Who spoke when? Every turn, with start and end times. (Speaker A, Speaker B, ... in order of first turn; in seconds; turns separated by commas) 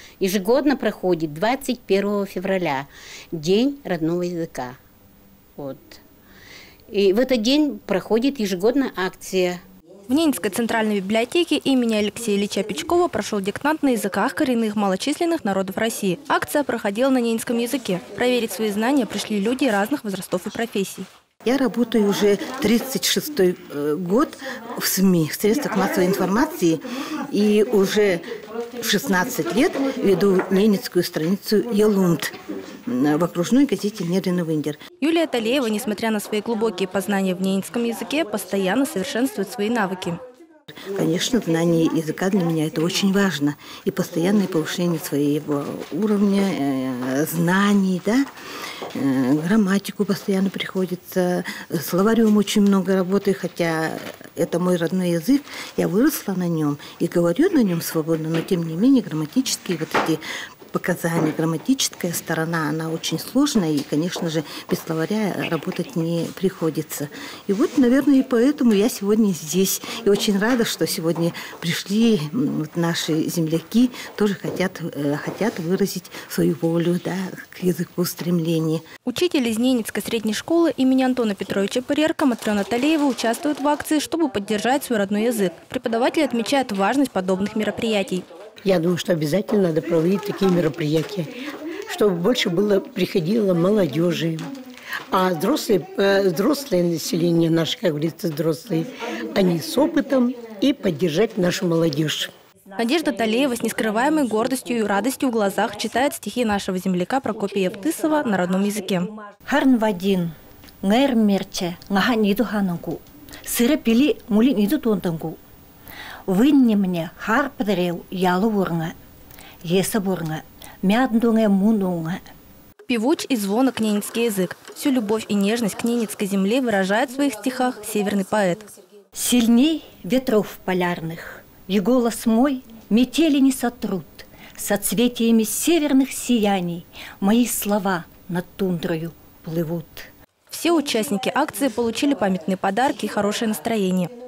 Speaker A: 0.2-4.8, Speaker A: 5.6-6.0, Speaker A: 6.9-9.6, Speaker B: 10.1-21.1, Speaker C: 21.4-28.2, Speaker C: 28.8-32.3, Speaker C: 32.9-34.8, Speaker B: 35.0-40.2, Speaker C: 41.0-48.2, Speaker C: 49.0-60.2, Speaker C: 60.7-78.8, Speaker B: 79.1-88.2, Speaker D: 88.6-91.3, Speaker D: 91.9-94.5, Speaker D: 95.1-102.3, Speaker B: 102.8-109.1, Speaker E: 109.5-115.4, Speaker E: 116.3-118.9, Speaker E: 119.6-122.2, Speaker B: 122.9-128.6, Speaker E: 129.2-140.1, Speaker B: 140.5-144.1